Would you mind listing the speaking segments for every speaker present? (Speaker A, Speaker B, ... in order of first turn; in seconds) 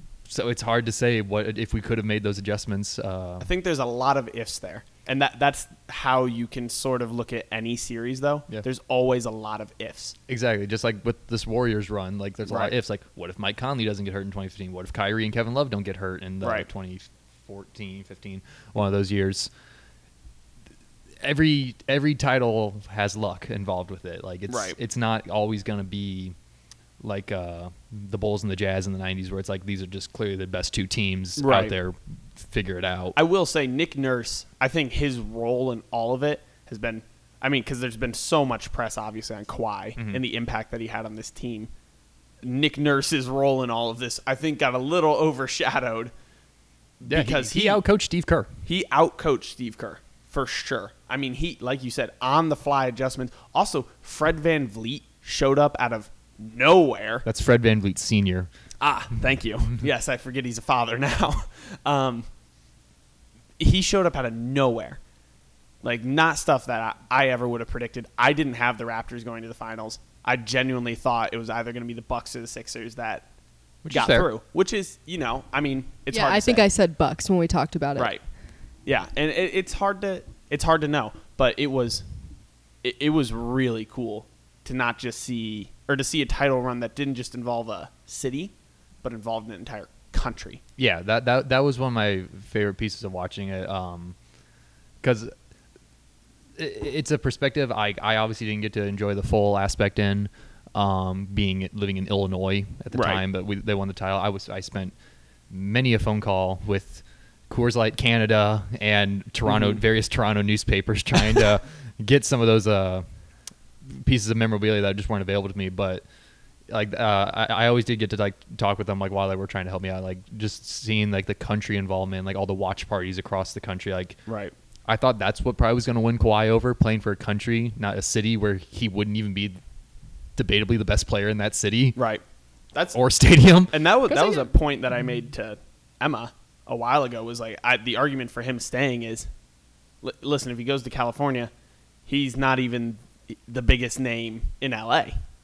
Speaker A: 0.3-3.5, 10.3-19.5, 21.2-26.3, 27.0-33.1, 40.0-40.2, 47.1-48.5, 57.2-58.5, 73.8-74.3, 90.8-94.2, 95.0-95.3, 96.6-104.9, 105.5-113.0, 113.9-116.0, 116.7-124.2, 124.9-129.6, 130.4-132.0, 132.9-133.8
Speaker B: 3.4-10.1, 12.5-12.7, 16.4-16.7, 24.5-24.8, 31.4-31.7, 33.1-41.7, 42.4-46.1, 47.0-47.8, 48.6-57.2, 58.8-62.3, 63.6-65.0, 65.8-73.3, 73.9-76.7, 78.0-78.2, 78.8-82.0, 82.8-90.6, 102.9-103.2, 109.5-109.8, 124.3-124.5, 131.9-133.0, 133.7-139.3, 140.0-141.5, 142.1-145.2
Speaker C: 76.1-78.1, 134.1-134.5